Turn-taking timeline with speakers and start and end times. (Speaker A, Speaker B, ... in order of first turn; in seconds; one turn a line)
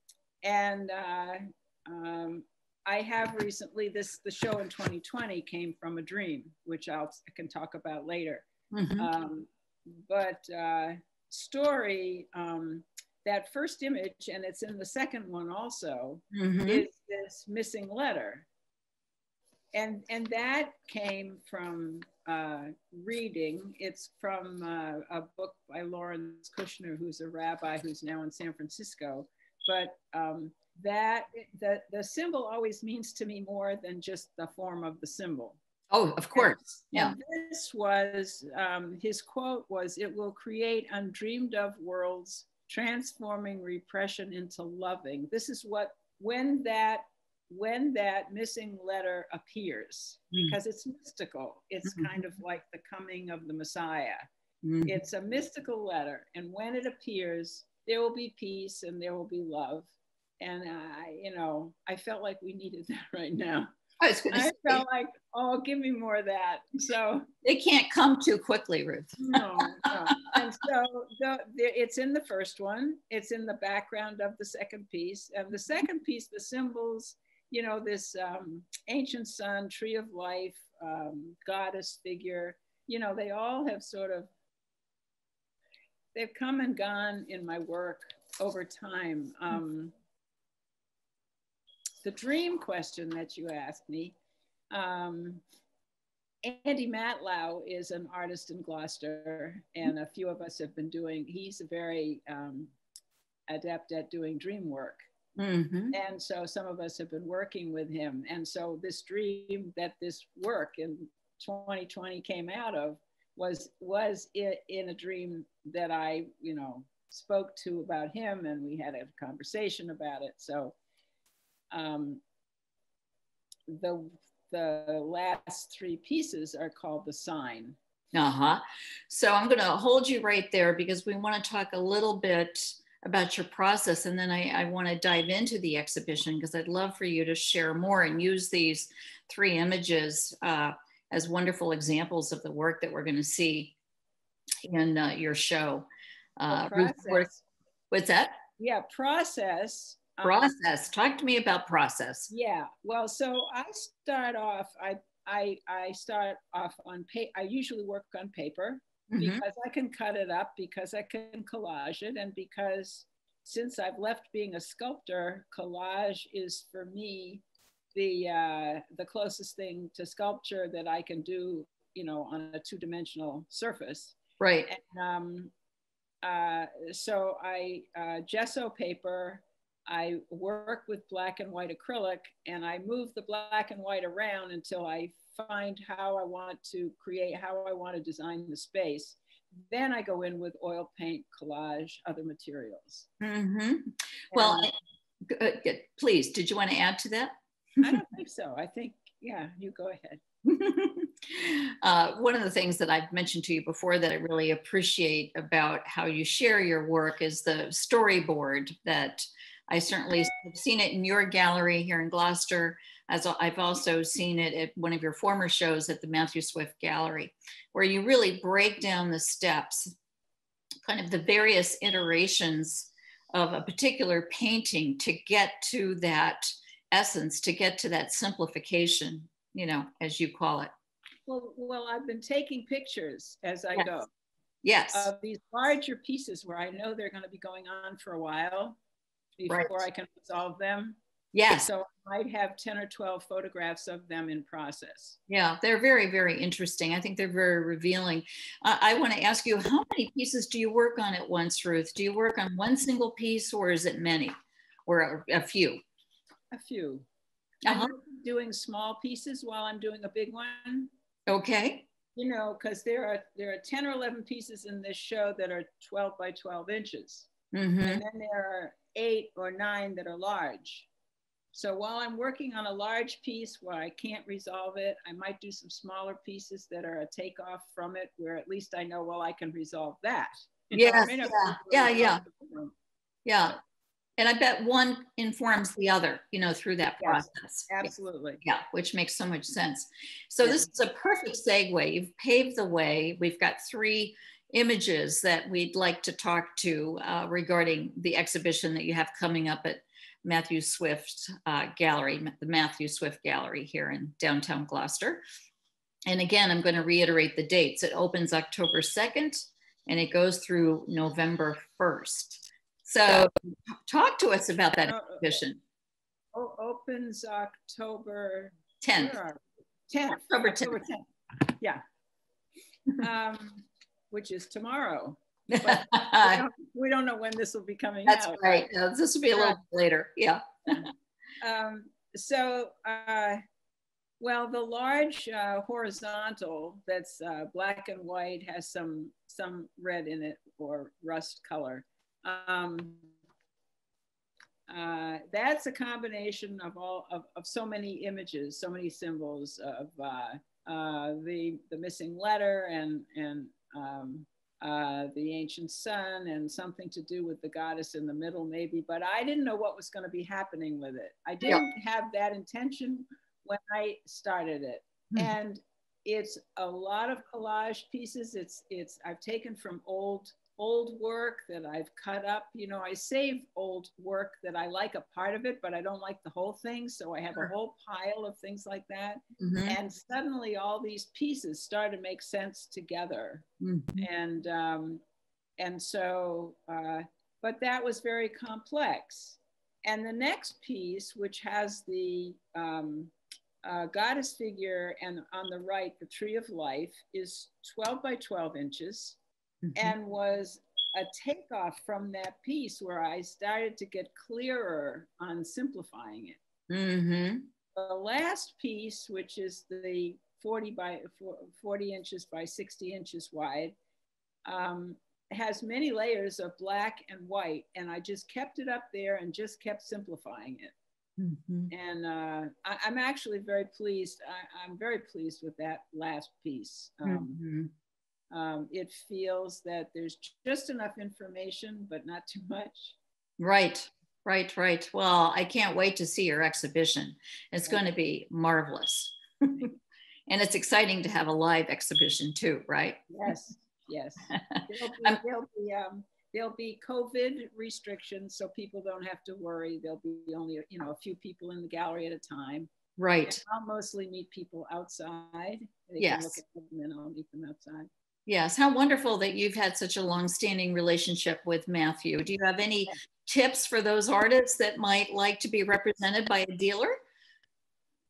Speaker A: 0.4-8.5
Speaker B: 8.7-9.1
Speaker A: 9.0-18.5
Speaker B: 16.3-16.9
Speaker A: 19.7-35.6
Speaker B: 35.9-37.1
Speaker A: 36.3-54.3
Speaker B: 51.9-52.2
Speaker B: 54.6-55.0
Speaker A: 54.9-63.7
Speaker B: 64.0-64.8
Speaker A: 64.3-67.3
Speaker B: 67.4-69.2
Speaker A: 69.2-84.3
Speaker A: 86.1-89.9
Speaker A: 92.0-94.2
Speaker A: 94.7-95.4
Speaker A: 96.4-102.7
Speaker A: 103.5-105.1
Speaker B: 105.4-106.0
Speaker A: 105.9-120.8
Speaker A: 121.7-122.2
Speaker A: 123.7-127.8
Speaker B: 128.1-143.8
Speaker B: 144.7-147.3
Speaker A: 146.5-147.4
Speaker B: 147.9-148.4
Speaker A: 148.6-150.5
Speaker B: 150.2-152.3
Speaker A: 152.3-174.2
Speaker B: 159.1-159.4
Speaker B: 174.4-174.7
Speaker A: 174.7-175.5
Speaker A: 176.2-193.1
Speaker B: 193.2-194.7
Speaker A: 194.3-194.7
Speaker B: 195.3-198.0
Speaker A: 197.8-200.2
Speaker B: 200.5-219.9
Speaker B: 220.9-230.7
Speaker A: 231.3-234.1
Speaker B: 234.6-235.1
Speaker A: 234.9-238.8
Speaker A: 239.4-245.2
Speaker B: 239.5-239.8
Speaker B: 241.3-241.7
Speaker B: 245.3-254.3
Speaker B: 254.9-255.8
Speaker A: 256.5-257.1
Speaker B: 257.7-257.9
Speaker A: 257.7-260.9
Speaker B: 261.3-261.9
Speaker A: 262.1-267.3
Speaker B: 267.5-268.0
Speaker A: 267.9-270.9
Speaker A: 271.5-282.7
Speaker B: 280.7-282.2
Speaker B: 283.2-283.6
Speaker B: 284.2-287.9
Speaker A: 287.0-288.4
Speaker B: 288.4-305.2
Speaker A: 290.4-290.7
Speaker B: 306.1-315.6
Speaker A: 314.9-315.4
Speaker A: 316.3-321.8
Speaker B: 318.8-319.2
Speaker B: 320.3-320.8
Speaker A: 323.0-328.7
Speaker B: 325.5-326.4
Speaker B: 328.1-330.9
Speaker A: 329.3-329.6
Speaker A: 331.4-333.4
Speaker A: 334.2-343.1
Speaker A: 344.7-383.5
Speaker B: 379.4-379.8
Speaker B: 383.6-384.1
Speaker A: 384.0-385.0
Speaker A: 385.6-399.2
Speaker B: 399.7-399.9
Speaker A: 399.8-406.4
Speaker B: 406.7-407.4
Speaker A: 407.8-413.8
Speaker A: 414.4-420.7
Speaker B: 421.2-421.7
Speaker A: 421.7-427.4
Speaker B: 427.1-427.7
Speaker A: 428.3-433.0
Speaker B: 433.4-439.7
Speaker B: 440.3-443.1
Speaker A: 443.1-452.7
Speaker B: 444.3-445.2
Speaker B: 453.0-453.4
Speaker A: 453.2-457.9
Speaker B: 456.0-456.4
Speaker B: 458.3-467.0